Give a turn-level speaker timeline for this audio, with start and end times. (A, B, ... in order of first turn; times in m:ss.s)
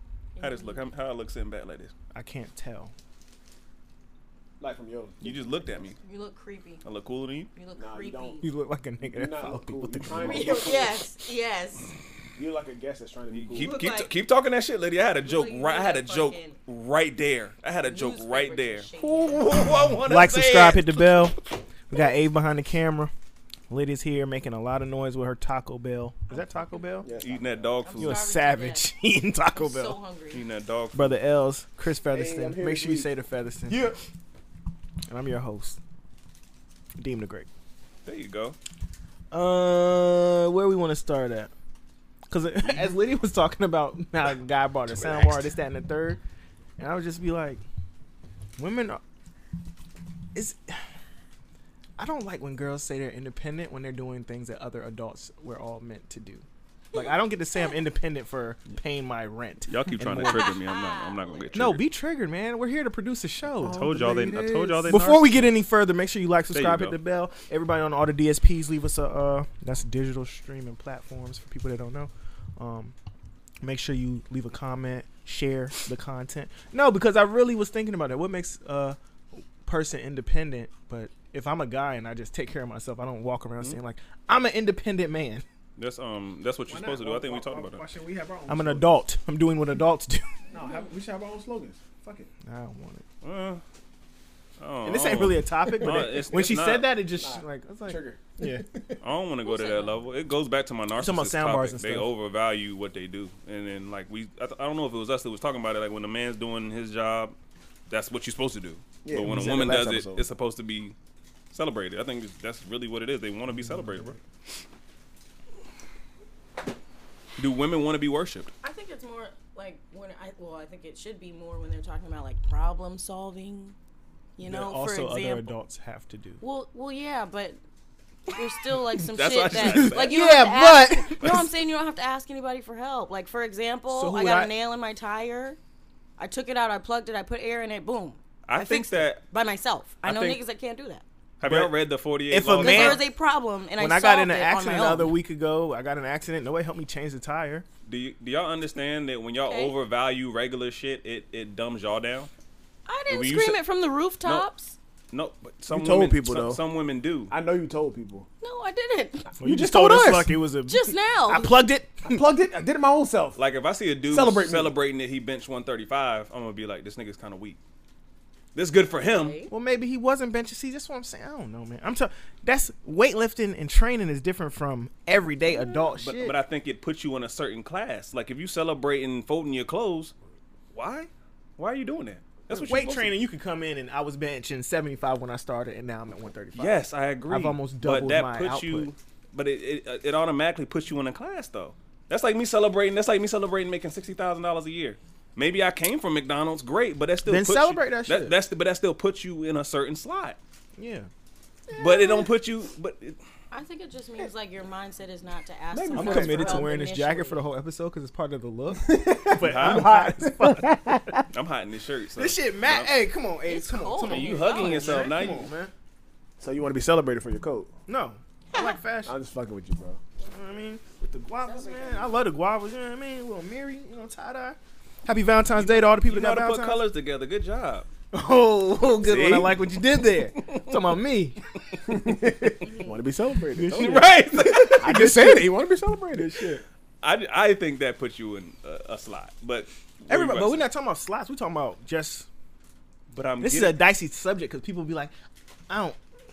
0:00.4-0:00.8 A
0:00.4-0:01.9 B
0:02.1-0:02.9 C
0:04.6-0:05.9 D
0:05.2-0:06.0 B
0:06.0-0:06.8 A
0:06.8-0:07.5 B
0:07.5-0:08.5 A
0:07.8-0:08.4 D
0:08.4-0:10.7 C
0:09.1-0:11.0 D
0:10.2-0:11.9 A
0:12.4-0:13.8 D
0:13.3-0:20.9 B
0:13.6-0:14.1 A
0:15.2-0:16.6 A
0:17.8-0:19.7 A
0:20.0-0:23.1 C
0:23.7-0:27.1 C
0:27.0-0:27.8 D
0:27.2-0:28.2 B
0:27.8-0:28.9 A
0:28.0-0:30.0 C
0:29.6-0:30.4 A
0:30.3-0:31.1 B
0:30.9-0:33.8 C
0:32.1-0:33.1 D
0:33.7-0:34.0 D
0:35.1-0:35.8 C
0:37.0-0:37.5 C
0:38.0-0:38.6 B
0:39.3-0:41.5 C
0:42.3-0:46.2 C
0:45.0-0:45.4 D
0:46.8-0:47.6 C
0:48.6-0:49.0 C
0:50.3-0:50.8 C
0:52.0-1:00.6 C
0:59.7-1:01.8 B
1:00.2-1:01.5 A
1:01.5-1:03.8 C
1:03.6-1:05.0 D
1:03.6-1:05.5 B
1:04.8-1:13.0 C
1:06.5-1:07.0 B
1:13.6-1:25.4 C
1:25.8-1:27.8 B
1:26.7-1:28.9 D
1:28.5-1:30.3 C
1:30.5-1:32.3 D
1:30.6-1:30.9 A
1:32.4-1:33.0 C
1:33.2-1:33.6 B
1:34.6-1:36.9 B
1:34.8-1:38.6 C
1:35.8-1:36.3 D
1:37.1-1:39.0 D
1:39.0-1:47.4 B
1:39.4-1:40.0 A
1:41.0-1:42.1 C
1:47.9-1:51.0 B
1:49.0-1:50.3 D
1:51.5-1:54.2 B
1:57.4-1:58.5 B
1:58.6-2:03.8 A
2:04.4-2:05.5 A
2:04.4-2:06.4 C
2:06.4-2:07.6 A
2:08.3-2:15.6 A
2:09.0-2:10.2 B
2:09.5-2:11.4 C
2:13.9-2:14.5 C
2:16.2-2:21.0 A
2:18.5-2:19.2 B
2:20.0-2:20.4 B
2:21.4-2:23.1 B
2:21.4-2:21.7 C
2:22.3-2:23.1 C
2:22.6-2:25.2 A
2:23.8-2:27.6 C
2:27.9-2:32.3 B
2:29.4-2:29.8 A
2:32.9-2:34.8 A
2:33.1-2:33.6 B
2:34.2-2:34.5 B
2:35.1-2:37.3 B
2:35.7-2:36.6 D
2:37.3-2:38.3 D
2:38.4-2:39.3 A
2:39.4-2:42.2 C
2:39.4-2:40.4 D
2:40.7-2:41.5 A
2:42.0-2:43.4 D
2:43.4-2:47.6 B
2:44.1-2:44.8 D
2:48.6-2:49.4 B
2:48.9-2:49.5 A
2:49.5-2:56.4 C
2:56.0-3:00.1 B
3:00.7-3:03.2 B
3:02.5-3:08.9 C
3:06.6-3:20.4 B
3:17.3-3:18.4 C
3:20.8-3:21.1 C
3:21.8-3:23.2 B
3:23.5-3:27.4 A
3:25.7-3:26.6 B
3:25.7-3:26.7 D
3:25.9-3:31.3 C
3:28.8-3:31.0 D
3:29.4-3:30.1 B
3:31.3-3:32.9 B
3:32.2-3:35.7 C
3:33.5-3:35.1 A
3:34.1-3:35.5 B
3:35.0-3:35.5 D
3:36.4-3:37.7 D
3:37.9-3:39.2 C
3:39.1-3:40.0 D
3:40.3-3:46.8 C
3:45.6-3:47.9 B
3:48.1-3:51.4 C
3:49.0-3:49.6 D
3:51.9-3:56.3 D
3:52.0-3:52.6 C
3:53.6-3:55.6 C
3:53.7-3:54.9 B
3:56.1-3:56.6 C
3:57.0-4:00.7 B
4:00.1-4:02.3 C
4:03.1-4:03.8 B
4:03.4-4:05.1 C
4:05.7-4:06.0 C